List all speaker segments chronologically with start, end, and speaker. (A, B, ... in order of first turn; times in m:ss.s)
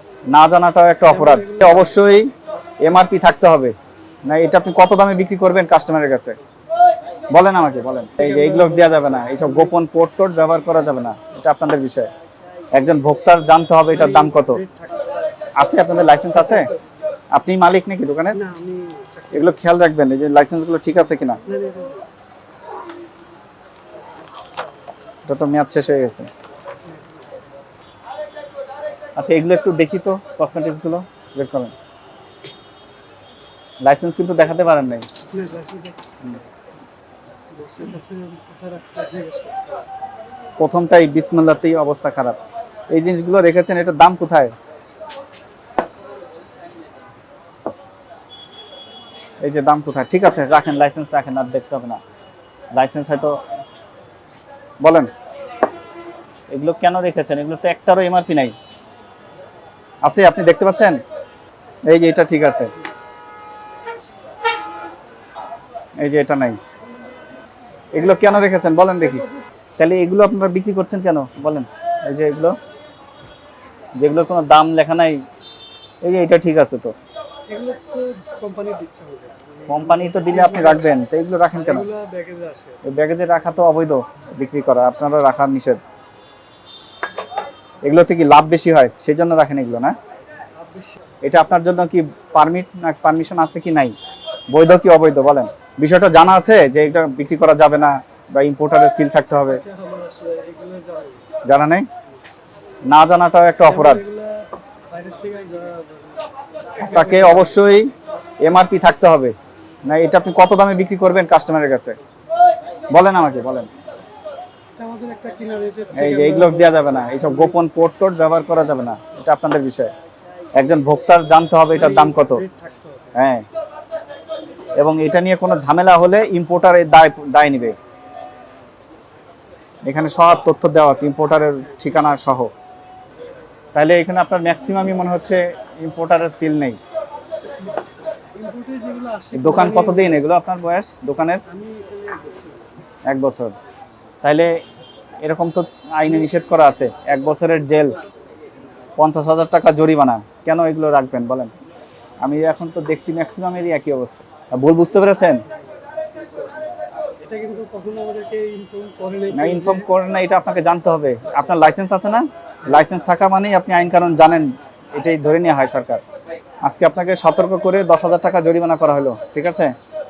0:00.3-0:02.3 A
0:01.0-0:02.0 B
0:02.8-0:06.4 A
0:07.3-0:12.1 A
0:08.2-0:09.7 B
0:12.7-0:14.6 A
0:13.9-0:15.5 B
0:15.6-0:16.7 A
0:16.1-0:16.8 B
0:17.3-0:18.4 A
0:18.3-0:19.6 B
0:19.3-0:21.4 A
0:21.4-0:22.0 B
0:24.0-0:24.9 B
0:25.2-0:26.3 A
0:26.8-0:27.3 B
0:29.2-0:31.7 A
0:33.8-0:35.1 A
0:35.3-0:36.4 B
0:37.5-0:39.8 B
0:40.6-0:42.4 A
0:42.9-0:44.5 A
0:49.4-0:52.0 A
0:52.8-0:53.4 A
0:54.8-0:55.1 A
0:56.5-0:58.5 A
1:00.0-1:01.0 A
1:01.9-1:02.7 A
1:06.0-1:06.6 A
1:07.9-1:09.2 A
1:09.0-1:09.4 B
1:09.8-1:12.6 A
1:14.0-1:15.2 A
1:16.0-1:16.9 A
1:17.5-1:20.9 B
1:19.7-1:21.9 A
1:21.5-1:22.8 B
1:22.8-1:25.8 A
1:27.8-1:29.9 A
1:30.6-1:31.1 B
1:31.2-1:33.9 A
1:34.5-1:39.6 A
1:39.5-1:41.2 B
1:41.4-1:41.9 A
1:42.9-1:44.0 A
1:43.6-1:47.6 B
1:46.8-1:47.9 A
1:48.4-1:52.0 A
1:52.9-1:53.7 A
1:54.8-1:57.6 B
1:55.9-1:59.9 A
2:00.6-2:02.4 A
2:01.7-2:03.1 B
2:03.1-2:03.4 A
2:04.8-2:07.8 A
2:09.8-2:12.5 A
2:13.7-2:16.8 A
2:18.3-2:20.3 B
2:19.3-2:21.4 A
2:21.4-2:22.7 B
2:23.1-2:23.5 A
2:24.2-2:24.6 A
2:25.2-2:27.9 A
2:29.0-2:31.5 A
2:32.2-2:35.4 A
2:35.5-2:36.7 B
2:37.2-2:39.9 B
2:39.3-2:46.1 A
2:46.6-2:49.7 A